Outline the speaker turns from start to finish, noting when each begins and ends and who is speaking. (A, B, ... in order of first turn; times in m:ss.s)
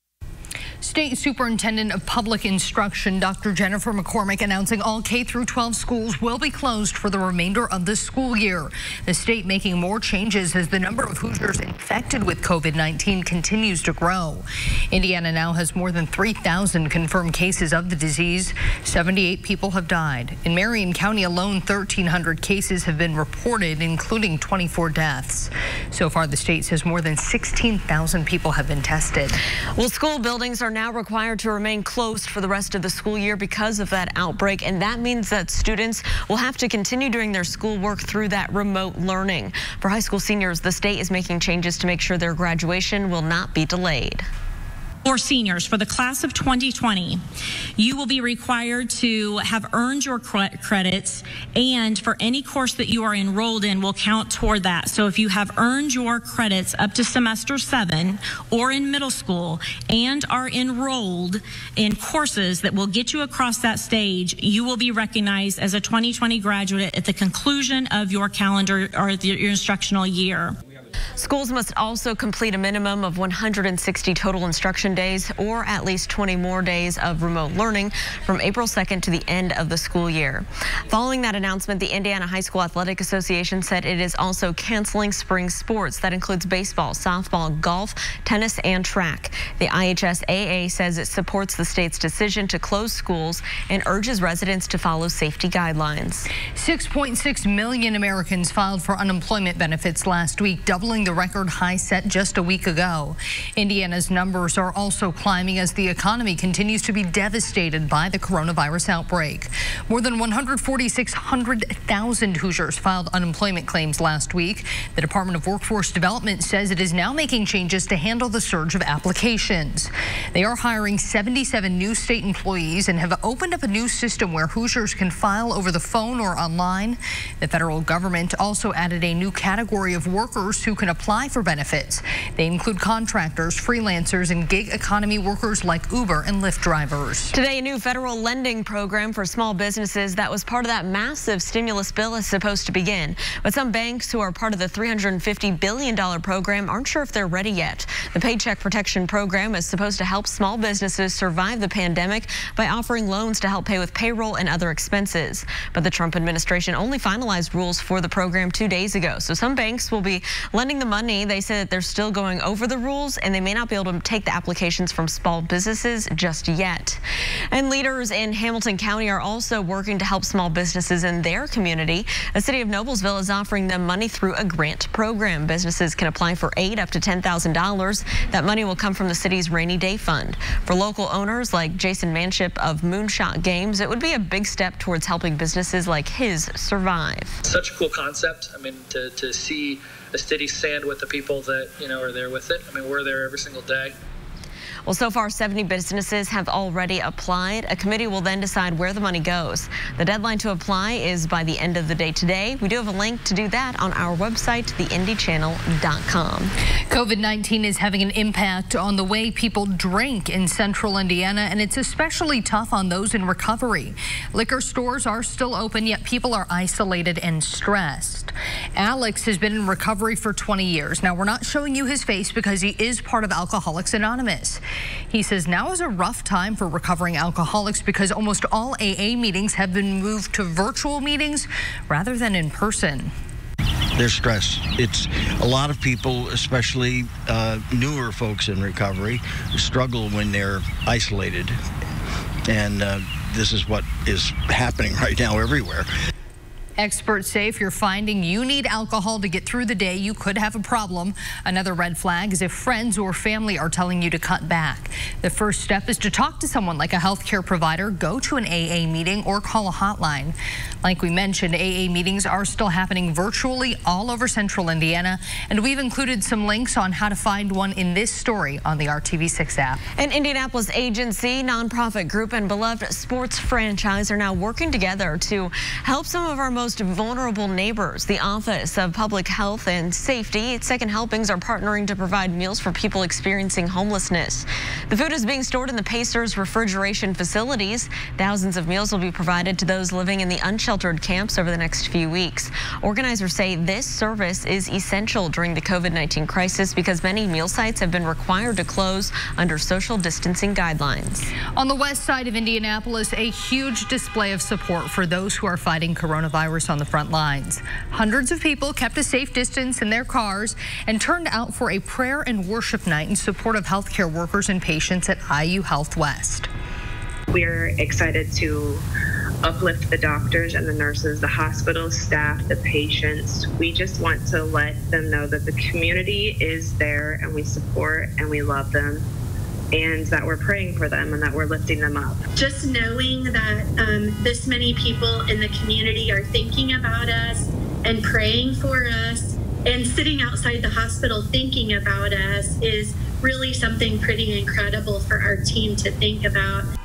0:00.8-0:29.4 A
0:29.8-0:44.3 B
0:45.0-0:47.2 C
0:47.8-1:10.6 C
1:11.2-1:36.3 B
1:36.5-2:17.3 A
2:17.3-2:47.0 B
2:47.5-3:07.4 B
3:07.5-3:14.0 D
3:14.9-3:26.5 B
3:26.9-3:53.1 A
3:54.0-4:01.6 E
4:02.5-4:05.9 E
4:06.8-4:29.8 A
4:30.0-5:01.3 B
5:01.6-5:16.5 A
5:17.3-5:18.8 F
5:19.4-5:29.0 F
5:29.7-5:32.3 F
5:32.4-5:46.7 G